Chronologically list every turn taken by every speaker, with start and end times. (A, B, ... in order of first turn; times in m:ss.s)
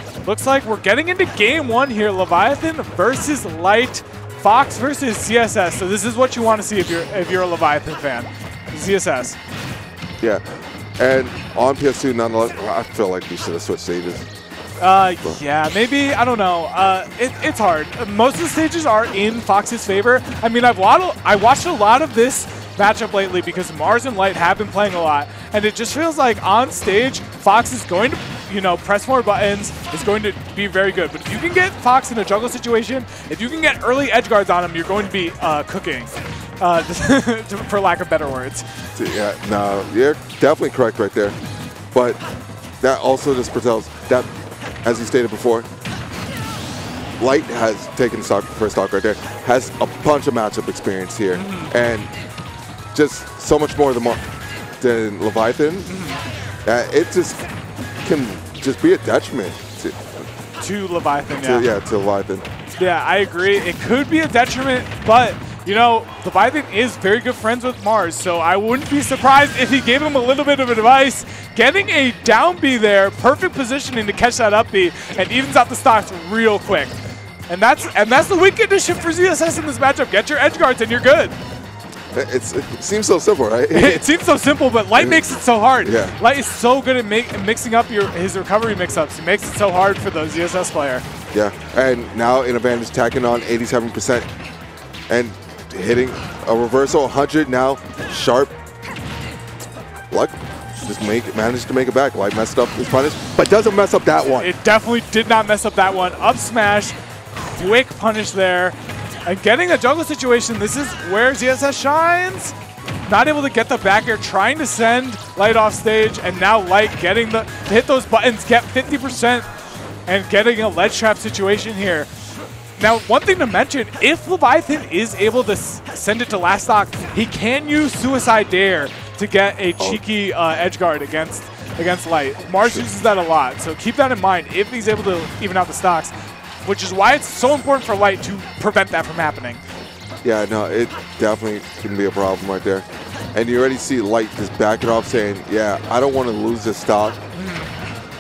0:00.2-0:09.4 A
0:11.0-0:14.3 B
0:14.8-0:38.7 A
0:39.0-0:41.4 B
0:41.9-0:42.2 B
0:42.8-0:44.3 B
0:44.8-0:45.7 B
0:47.2-0:52.1 B
0:51.3-0:51.7 A
0:52.9-0:54.2 B
0:54.8-0:55.9 B
0:55.9-0:56.2 A
0:56.6-0:57.4 B
0:58.0-1:00.2 B
1:00.6-1:01.7 A
1:01.4-1:02.5 B
1:02.8-1:17.0 A
1:17.5-1:21.4 A
1:22.1-1:24.1 B
1:23.7-1:31.0 A
1:25.0-1:26.2 B
1:31.3-1:34.3 B
1:35.1-1:38.5 B
1:40.1-1:44.5 B
1:44.4-1:59.5 A
2:00.1-2:02.1 A
2:02.8-2:16.1 A
2:16.6-2:19.6 A
2:20.2-2:27.2 B
2:27.3-2:27.7 A